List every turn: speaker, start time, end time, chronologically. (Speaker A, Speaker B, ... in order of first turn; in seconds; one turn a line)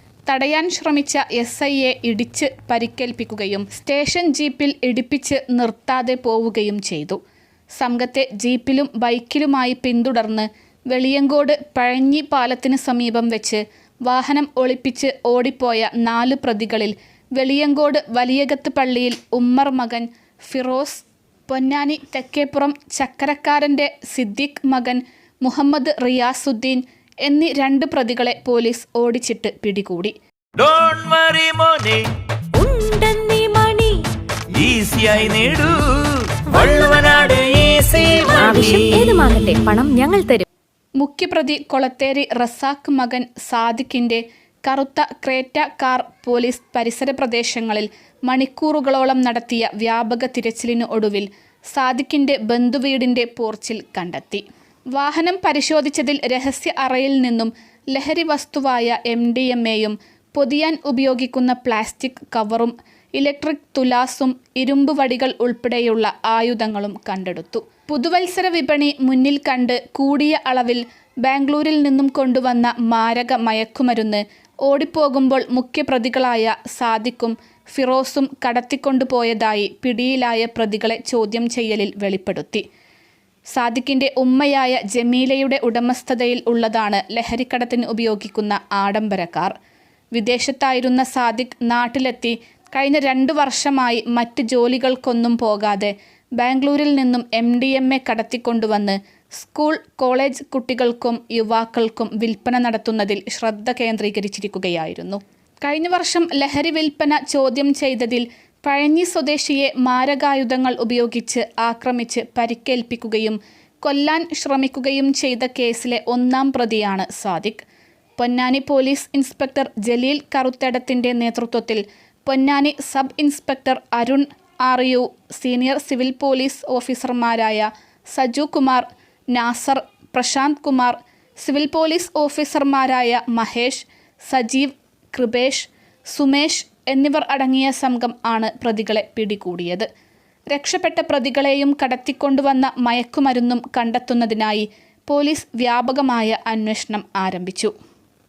Speaker A: 0.3-7.2
Speaker A: 7.8-30.1
Speaker B: 30.6-32.1
Speaker C: 32.5-34.0
Speaker B: 34.5-39.2
Speaker C: 38.4-40.4
Speaker A: 41.0-82.6
Speaker A: 83.5-89.5
Speaker A: 90.1-117.6
Speaker A: 118.2-139.9
Speaker A: 140.5-147.7